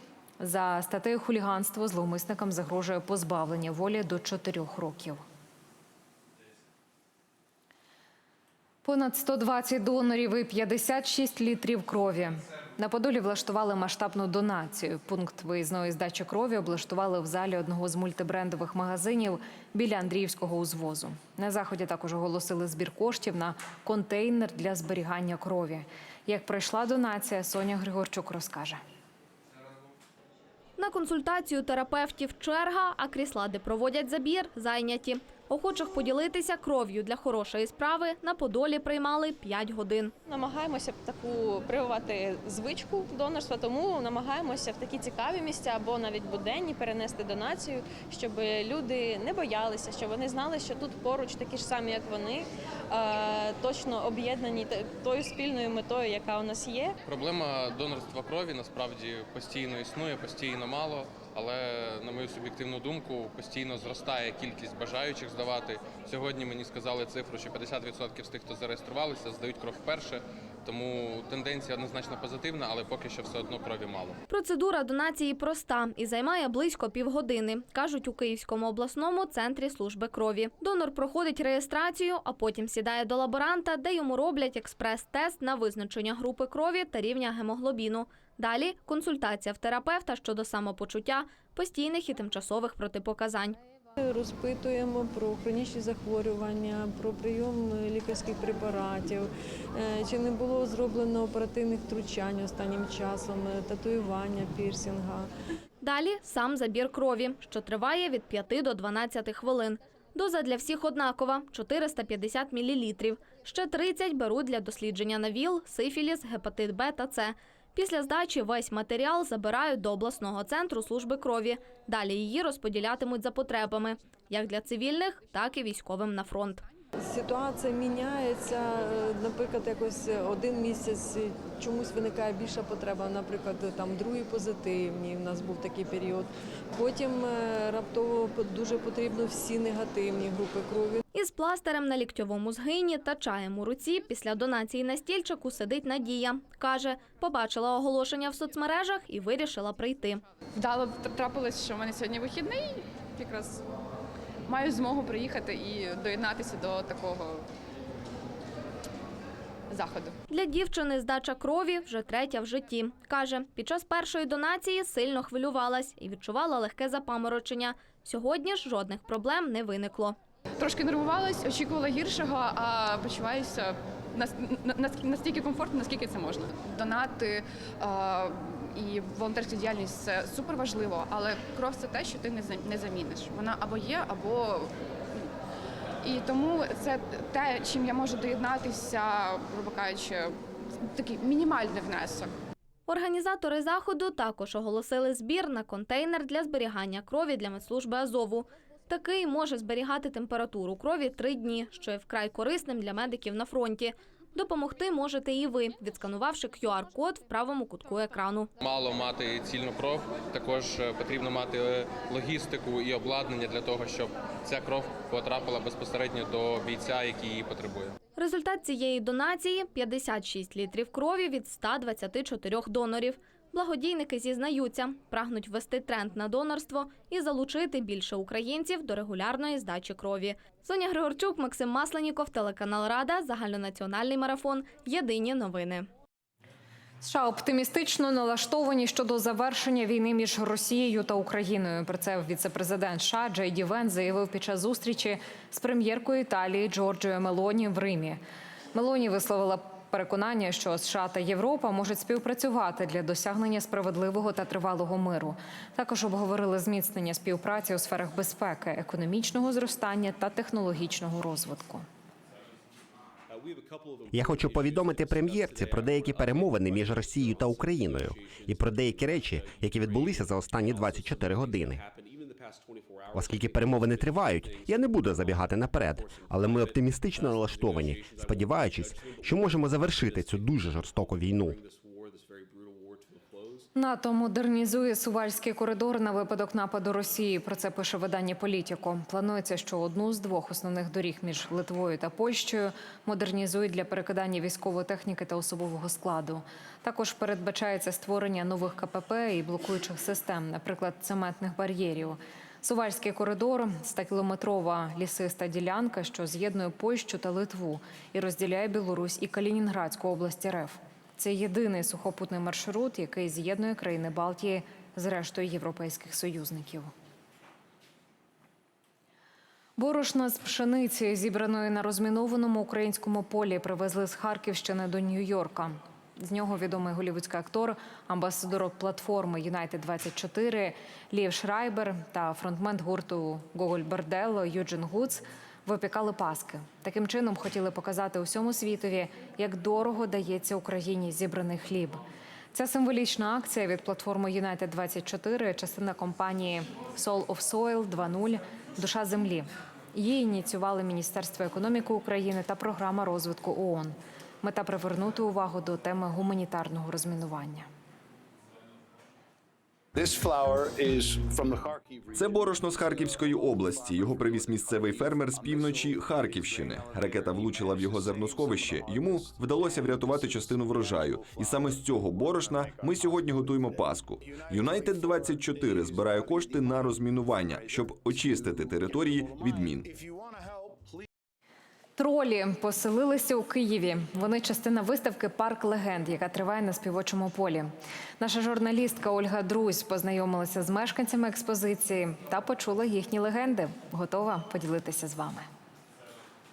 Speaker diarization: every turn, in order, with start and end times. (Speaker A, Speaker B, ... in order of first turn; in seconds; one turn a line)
Speaker A: 0.4-5.2
Speaker A: 8.8-28.8
Speaker B: 30.8-40.1
Speaker C: 40.3-57.0
Speaker D: 57.0-74.2
Speaker B: 74.3-93.6
Speaker E: 94.0-105.3
Speaker B: 105.8-126.6
Speaker E: 127.0-141.0
Speaker B: 141.1-150.2
Speaker F: 150.6-153.6
Speaker F: 154.4-157.4
Speaker F: 159.7-160.1
Speaker B: 160.3-170.2
Speaker F: 170.6-185.2
Speaker F: 186.0-192.3
Speaker B: 192.9-208.5
Speaker D: 208.6-217.9
Speaker B: 218.2-235.9
Speaker A: 237.0-248.2
Speaker A: 248.7-261.9
Speaker G: 264.1-271.8
Speaker G: 273.1-281.6
Speaker A: 283.7-316.9
Speaker A: 319.8-342.0
Speaker A: 342.5-357.7
Speaker G: 360.0-362.2
Speaker H: 360.0-380.1
Speaker A: 381.9-395.4